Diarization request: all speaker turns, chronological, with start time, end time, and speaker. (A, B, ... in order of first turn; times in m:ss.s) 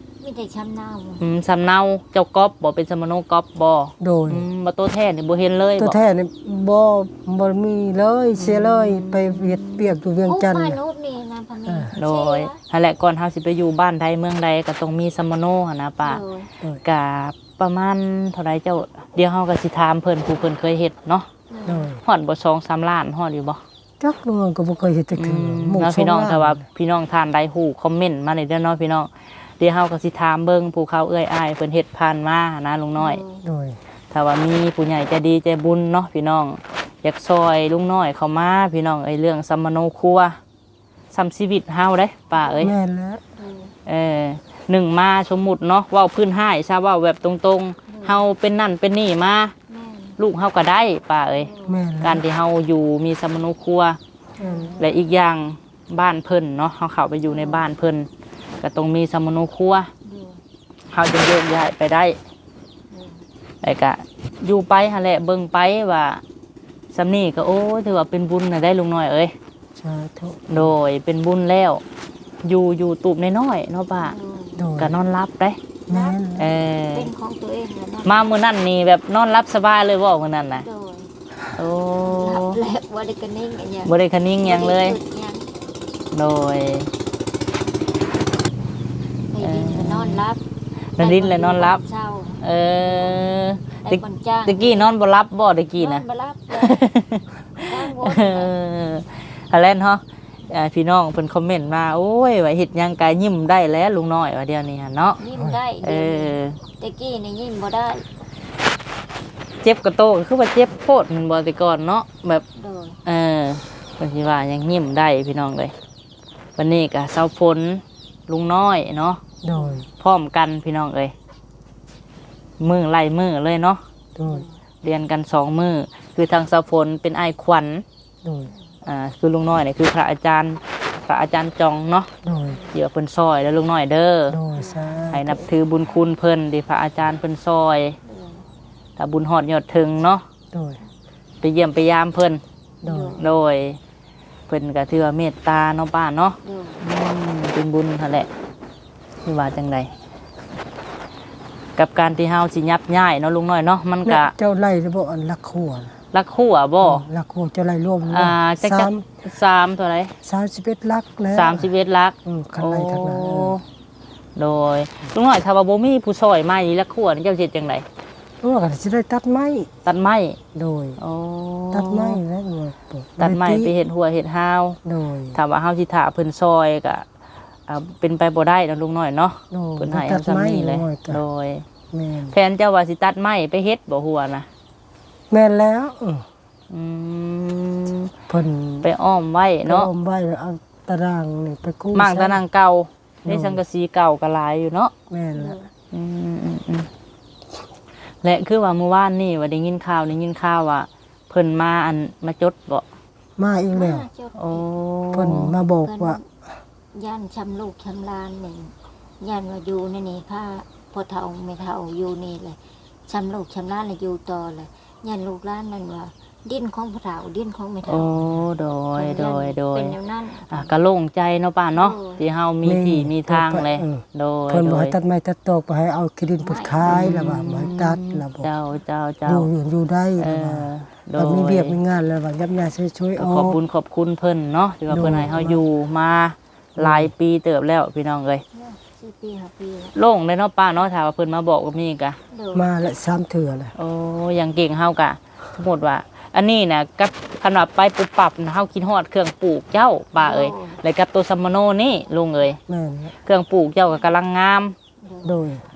0:00.2-0:01.2 A
0:01.2-0:06.0 B
0:04.0-0:04.5 C
0:05.8-0:10.8 C
0:08.4-0:09.9 B
0:10.3-0:12.6 A
0:11.7-0:11.9 C
0:12.0-0:16.2 B
0:16.0-0:16.5 A
0:16.8-0:21.3 B
0:21.5-0:21.9 A
0:21.7-0:22.0 C
0:22.0-0:23.6 B
0:24.0-0:26.6 C
0:25.1-0:33.2 B
0:33.0-0:33.4 A
0:33.4-0:33.8 C
0:34.1-0:40.4 B
0:41.1-0:42.7 B
0:42.6-0:43.2 C
0:43.4-0:43.7 A
0:43.9-0:49.6 B
0:47.9-0:48.2 A
0:49.7-0:50.2 A
0:50.2-0:51.5 B
0:51.4-0:51.8 A
0:51.7-0:52.2 C
0:52.0-0:54.0 B
0:54.4-0:54.8 C
0:54.4-0:54.8 A
0:54.8-0:58.1 B
0:57.3-0:57.7 A
0:58.6-0:59.9 B
1:00.0-1:00.4 A
1:00.9-1:02.2 B
1:02.9-1:03.2 A
1:03.6-1:06.2 B
1:06.9-1:09.4 B
1:09.8-1:10.7 C
1:10.5-1:11.8 B
1:12.4-1:14.2 B
1:14.0-1:14.7 A
1:14.6-1:14.9 C
1:14.8-1:15.6 B
1:15.9-1:16.5 C
1:15.9-1:16.2 A
1:16.4-1:17.1 B
1:16.9-1:18.3 A
1:18.0-1:20.7 B
1:20.6-1:21.1 A
1:21.6-1:22.6 B
1:22.0-1:25.5 A
1:23.8-1:25.0 B
1:26.1-1:26.9 B
1:29.3-1:30.4 A
1:29.4-1:30.2 B
1:31.0-1:31.8 B
1:31.0-1:33.2 A
1:32.4-1:36.0 B
1:33.8-1:34.9 A
1:35.8-1:36.8 A
1:36.6-1:45.2 B
1:37.6-1:38.5 A
1:45.2-1:48.0 A
1:45.8-1:46.6 B
1:49.6-1:52.4 B
1:52.5-1:53.0 A
1:53.0-1:55.7 B
1:56.6-1:59.2 B
1:59.4-1:59.9 C
1:59.5-1:59.8 A
2:00.0-2:01.1 B
2:02.6-2:03.8 B
2:04.2-2:04.5 C
2:04.2-2:04.6 A
2:04.8-2:07.8 B
2:08.2-2:08.5 C
2:08.5-2:08.7 A
2:08.8-2:12.1 B
2:12.2-2:12.6 C
2:12.4-2:12.7 A
2:12.7-2:14.4 B
2:14.3-2:15.4 C
2:14.5-2:15.1 A
2:15.1-2:18.0 B
2:18.0-2:18.4 A
2:19.0-2:20.2 B
2:20.5-2:20.8 C
2:21.4-2:22.4 B
2:22.8-2:23.3 A
2:22.8-2:23.2 C
2:23.2-2:23.8 B
2:24.5-2:28.3 B
2:26.4-2:26.8 A
2:29.3-2:29.9 B
2:31.8-2:34.3 B
2:34.0-2:35.9 C
2:36.1-2:37.0 B
2:36.8-2:39.1 C
2:38.1-2:40.2 B
2:40.2-2:41.7 C
2:41.3-2:43.6 B
2:42.2-2:43.6 C
2:44.4-2:47.9 B
2:48.4-2:49.7 C
2:49.8-2:50.4 B
2:50.6-2:51.0 C
2:51.0-2:52.2 B
2:51.7-2:53.7 C
2:53.2-2:54.8 B
2:54.8-2:55.4 C
2:55.3-2:57.1 B
2:57.7-3:01.7 B
2:59.5-3:01.2 C
3:01.9-3:02.4 C
3:02.3-3:04.5 B
3:05.3-3:06.3 C
3:06.7-3:08.1 B
3:08.3-3:08.9 C
3:08.8-3:09.9 B
3:09.6-3:12.4 C
3:11.9-3:14.9 B
3:13.3-3:13.6 C
3:15.1-3:15.6 C
3:15.3-3:15.7 A
3:15.9-3:16.9 B
3:18.2-3:22.9 B
3:23.4-3:24.0 C
3:23.7-3:24.6 A
3:24.4-3:25.5 B
3:25.1-3:26.2 C
3:25.8-3:26.3 A
3:26.9-3:38.3 A
3:37.8-3:40.0 B
3:39.0-3:40.7 A
3:40.5-3:45.0 B
3:41.7-3:42.2 A
3:42.6-3:48.5 C
3:46.4-3:47.0 A
3:46.9-3:49.5 B
3:49.3-3:53.6 C
3:50.2-3:51.8 B
3:53.2-3:58.4 B
3:54.9-3:55.6 C
3:56.8-3:57.1 C
3:58.5-4:00.0 A
4:00.0-4:02.2 B
4:02.3-4:02.7 A
4:02.5-4:03.7 C
4:03.8-4:12.6 B
4:10.2-4:10.8 A
4:12.7-4:13.1 C
4:13.3-4:14.8 B
4:15.0-4:15.4 A
4:15.2-4:15.6 C